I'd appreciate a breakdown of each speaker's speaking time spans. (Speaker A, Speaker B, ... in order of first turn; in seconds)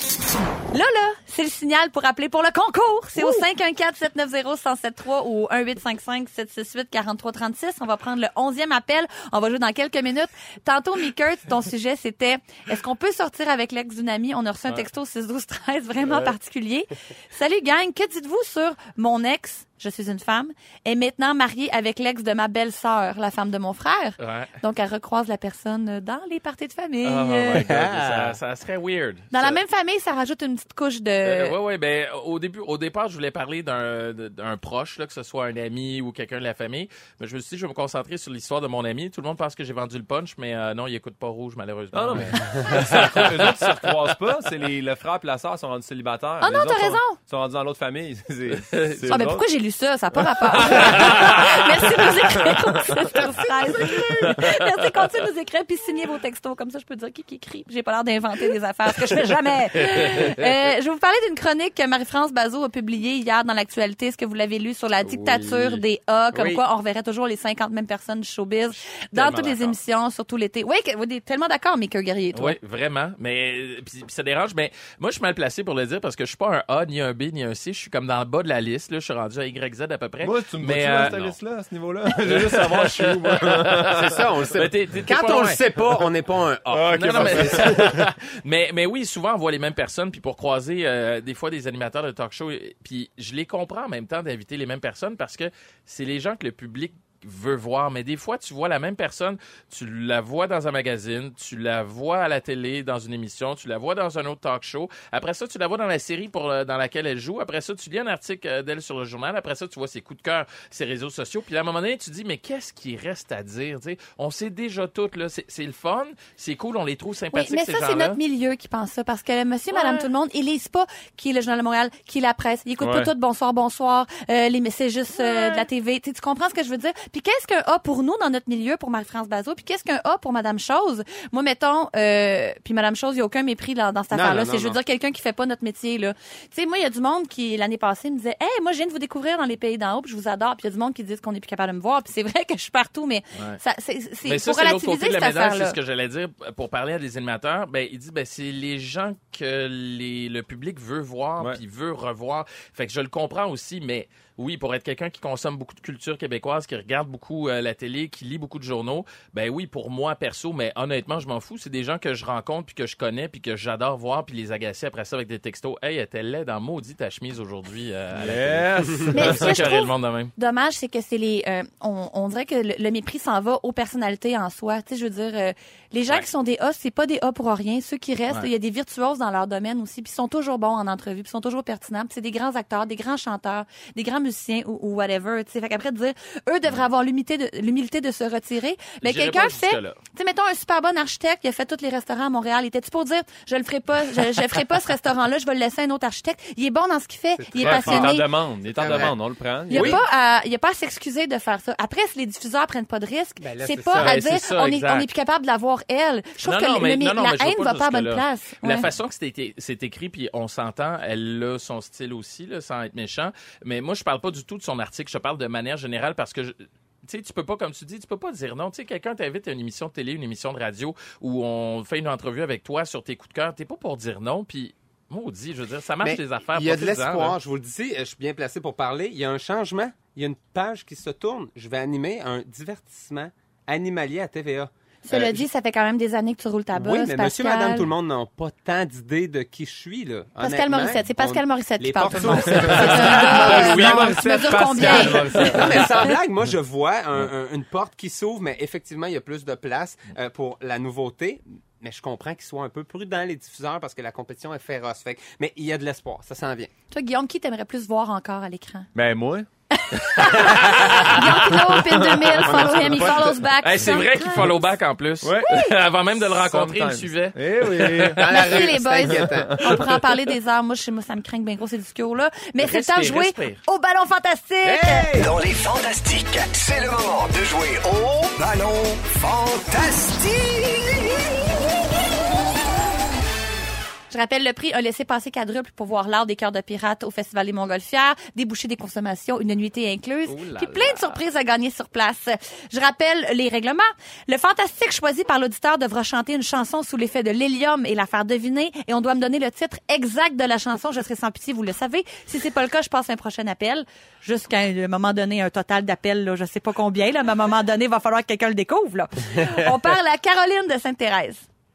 Speaker A: 0.7-27.6, 29.3-31.6, 46.4-47.2, 49.0-72.5, 117.3-145.8, 169.1-198.3, 199.7-208.9, 235.0-237.9, 240.4-245.6, 256.9-258.9, 259.7-264.6, 268.3-275.2, 284.1-311.4
Speaker B: 24.2-24.6, 27.0-29.6, 31.2-43.9, 48.7-49.1, 50.7-51.4, 59.9-60.4, 69.1-69.8, 72.3-81.3, 82.2-85.6, 86.7-118.2, 119.7-120.1, 144.2-170.3, 189.0-190.0, 204.0-205.1, 206.4-227.4, 242.3-244.1, 260.1-261.0, 263.6-268.6, 272.6-273.6, 290.3-291.2
Speaker C: 27.5-28.4, 42.1-42.8, 65.1-65.3, 83.9-88.0, 134.1-134.8, 197.4-198.2, 198.7-199.2, 199.7-200.0, 203.4-204.2, 226.0-235.4, 236.7-244.1, 244.7-256.7, 262.4-263.4, 268.1-269.9, 274.6-275.3
Speaker D: 41.9-49.5, 50.5-51.5, 80.2-84.2, 86.7-88.0, 122.8-123.1, 168.1-169.7, 197.6-200.0, 242.5-246.0, 258.9-259.5, 261.5-262.8, 265.2-269.6
Speaker E: 275.1-281.2